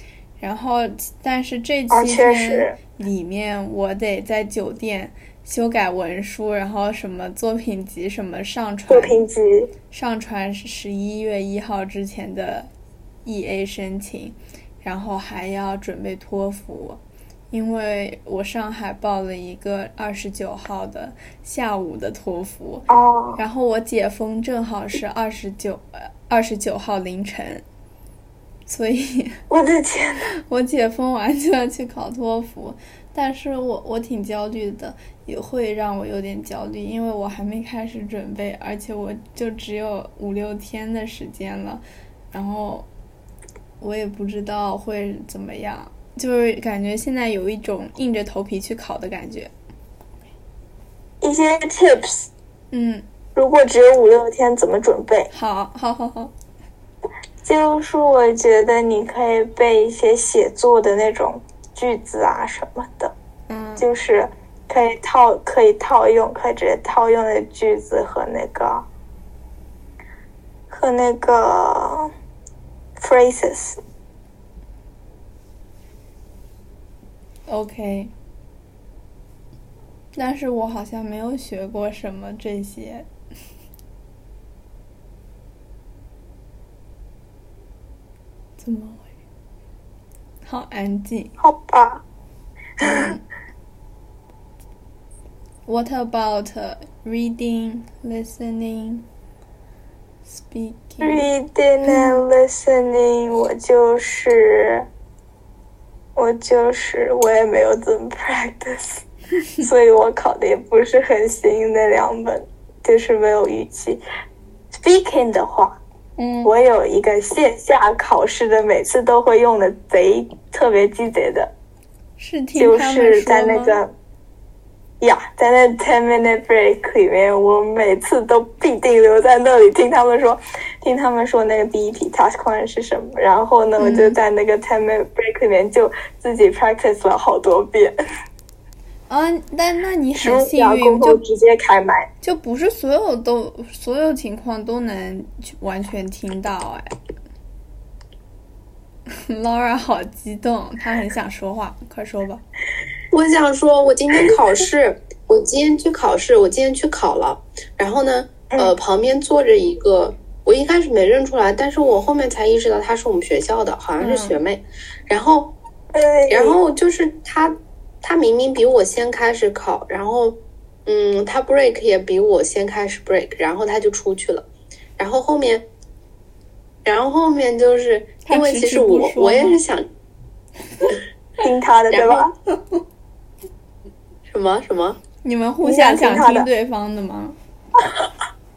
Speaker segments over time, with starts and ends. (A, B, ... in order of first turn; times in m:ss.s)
0:00.4-0:09.2 A
0:01.9-0:02.8 B
0:08.9-0:09.7 B
0:09.9-0:12.7 A
0:13.3-0:17.0 A
0:17.5-0:27.6 A
0:22.9-0:23.4 B
0:28.7-0:29.4 A
0:29.5-0:30.3 B
0:30.5-0:42.9 A
0:43.8-0:49.5 A
0:51.2-0:52.3 B
0:52.7-0:53.0 A
0:53.4-0:55.3 B
0:55.3-0:56.3 A
0:57.4-1:03.1 B
1:03.5-1:03.9 A
1:03.8-1:08.9 B
1:10.7-1:12.1 B
1:13.0-1:13.8 B
1:17.5-1:18.1 A
1:20.2-1:23.1 A
1:28.6-1:29.1 A
1:30.4-1:31.3 A
1:31.4-1:32.0 B
1:32.8-1:33.2 B
1:32.8-1:33.2 A
1:35.7-1:39.1 A
1:40.3-1:41.3 A
1:41.0-1:44.9 B
1:41.9-1:42.2 A
1:46.2-1:49.0 B
1:49.6-1:54.0 B
1:54.8-1:55.8 B
1:56.2-1:56.5 A
1:56.4-2:01.5 B
2:02.2-2:03.8 A
2:02.6-2:03.9 B
2:05.0-2:17.9 B
2:13.8-2:14.2 A
2:19.1-2:21.2 A
2:20.2-2:22.1 B
2:22.2-2:26.9 A
2:29.1-2:32.4 A
2:33.1-2:45.5 C
2:44.0-2:44.4 A
2:45.9-2:46.6 B
2:46.3-2:54.5 C
2:55.0-2:55.6 C
2:56.8-2:59.9 C
2:58.2-2:59.6 A
3:01.4-3:02.3 B
3:01.9-3:02.3 C
3:04.3-3:05.0 C
3:05.2-3:07.4 A
3:05.6-3:06.5 B